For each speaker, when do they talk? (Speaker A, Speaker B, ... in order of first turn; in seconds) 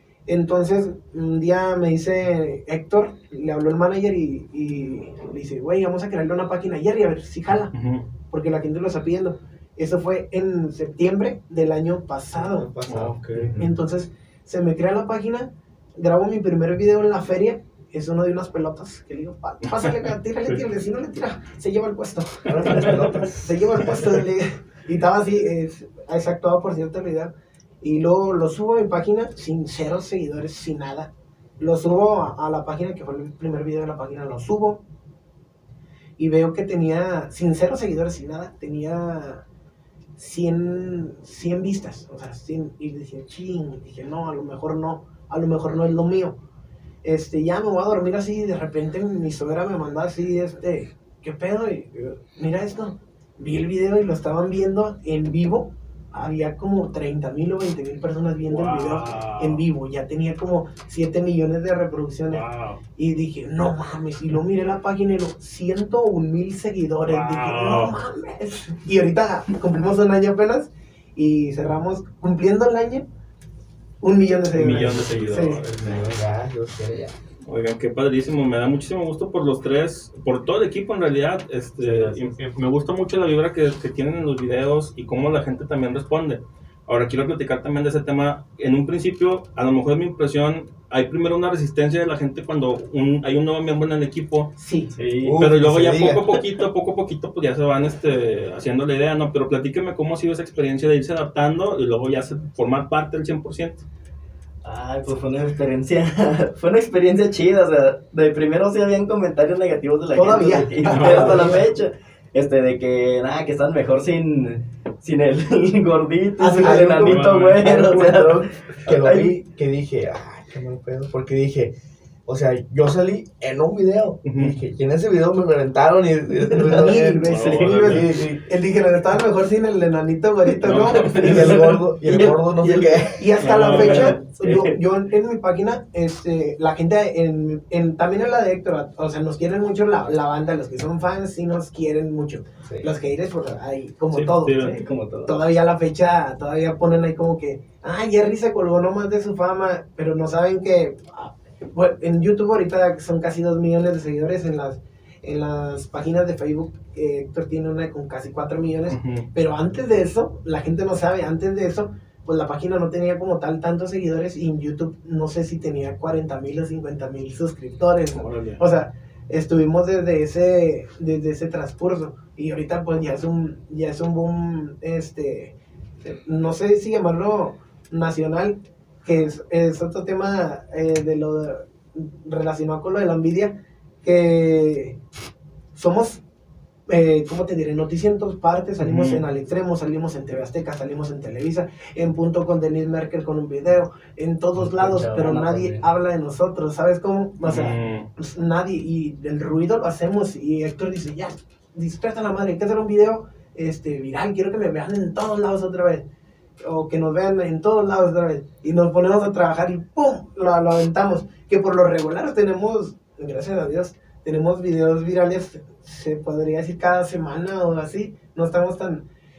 Speaker A: 0.2-7.7, 8.3-12.7, 13.5-34.8, 36.2-39.4, 40.2-46.4, 47.0-73.0, 74.0-75.6, 94.6-94.9, 110.1-111.6, 116.4-117.2, 126.6-131.6, 133.1-144.7, 145.2-185.0, 185.7-186.2, 186.9-206.0, 206.6-219.1
Speaker B: 7.7-8.0, 12.8-13.6, 58.5-59.6, 62.3-62.8, 67.0-68.0, 75.1-75.6, 77.5-94.5, 95.4-103.8, 110.9-111.6, 117.0-117.6, 124.2-124.5, 127.2-128.0, 130.6-131.1, 133.4-134.2, 144.1-144.8, 158.9-159.3, 168.1-168.6, 188.8-189.2, 197.4-198.1
Speaker C: 12.3-13.2, 22.5-23.9, 75.8-77.2, 95.2-96.3, 116.6-121.7, 122.2-128.4, 131.2-133.3, 142.6-142.9
Speaker D: 74.5-76.1, 81.8-82.3, 94.9-95.4, 104.6-119.4, 126.4-128.0, 130.7-134.8, 144.5-145.3, 194.5-195.8